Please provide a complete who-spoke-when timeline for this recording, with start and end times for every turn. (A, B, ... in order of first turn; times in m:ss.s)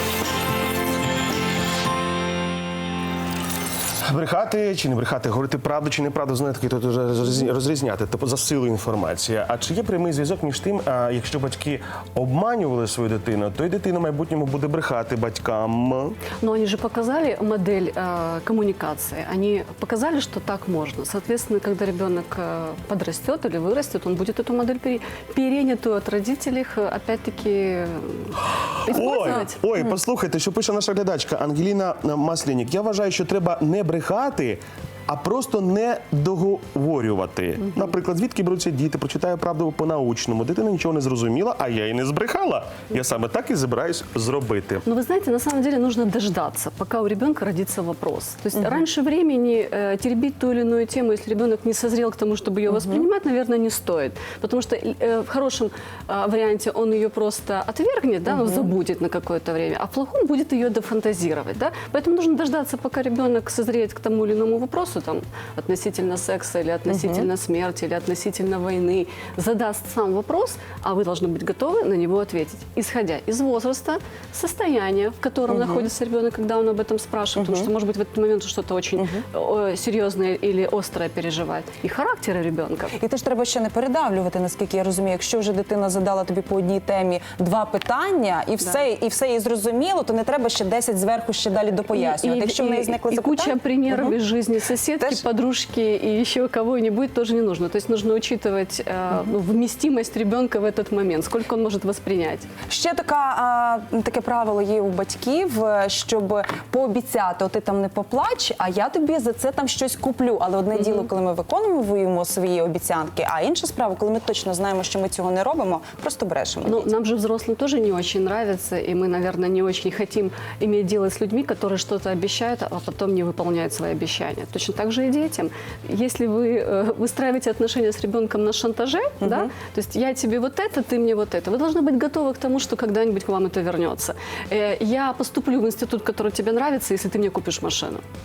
0:04.1-0:16.2 A
0:16.4-0:29.6 B
0:28.9-0:29.3 C
0:28.9-0:44.8 A
0:44.9-1:22.9 B
0:48.6-0:48.8 C
0:52.7-0:53.0 C
0:58.3-0:58.7 C
1:06.9-1:07.3 C
1:15.5-1:15.9 C
1:17.4-1:17.7 C
1:19.0-1:19.2 C
1:23.0-1:34.2 C
1:31.9-1:42.5 B
1:35.0-1:35.2 C
1:42.7-1:56.9 C
1:50.8-1:51.1 B
1:56.6-2:18.0 B
2:09.2-2:09.5 C